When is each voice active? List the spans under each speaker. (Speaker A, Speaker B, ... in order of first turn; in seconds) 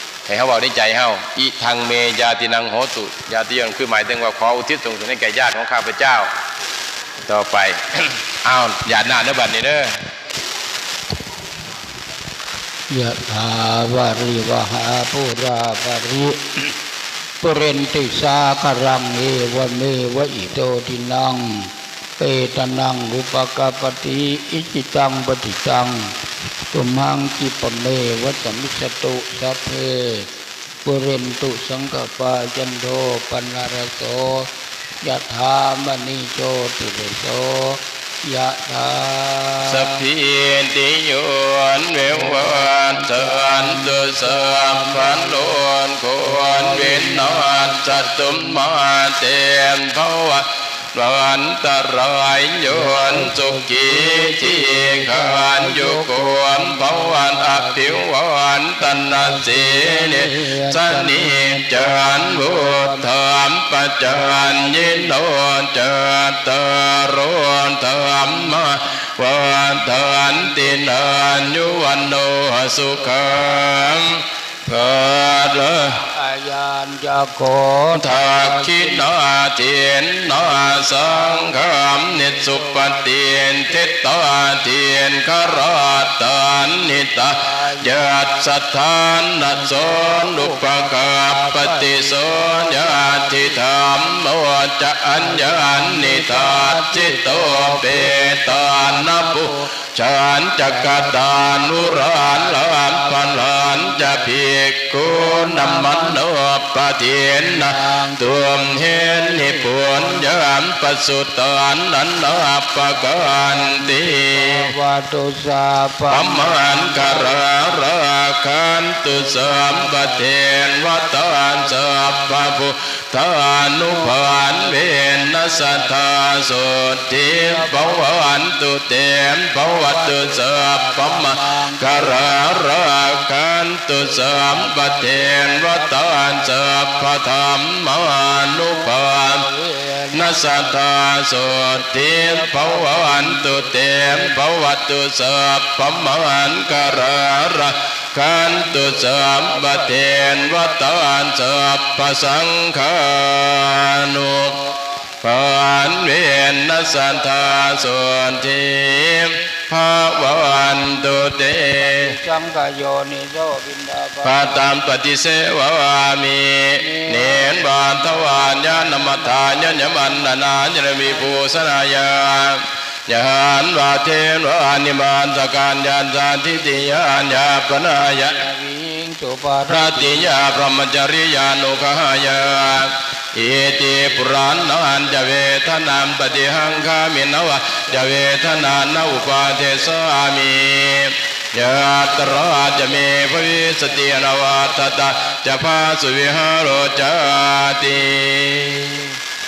Speaker A: 0.2-6.3, 7.2-7.8, 8.4-9.9, 39.6-76.0, 77.9-114.7, 116.1-139.5, 140.1-154.5, 155.2-162.2, 164.2-178.5, 179.7-199.1
Speaker B: 12.9-16.7, 17.4-26.1, 26.7-30.3, 30.8-34.5, 35.0-40.0, 42.0-45.6, 46.2-48.8, 52.7-58.0, 58.8-63.1, 64.2-65.1, 68.2-68.6, 75.9-79.1, 80.4-84.0, 87.3-88.5, 89.4-93.8, 95.1-99.7, 100.5-104.4, 105.0-106.2, 107.3-110.5, 112.9-117.4, 119.1-122.5, 123.8-128.5, 129.6-133.3, 133.9-137.3, 138.5-140.8, 141.5-144.4, 146.6-147.1, 148.4-151.0, 161.6-164.7, 166.8-171.4, 178.0-180.4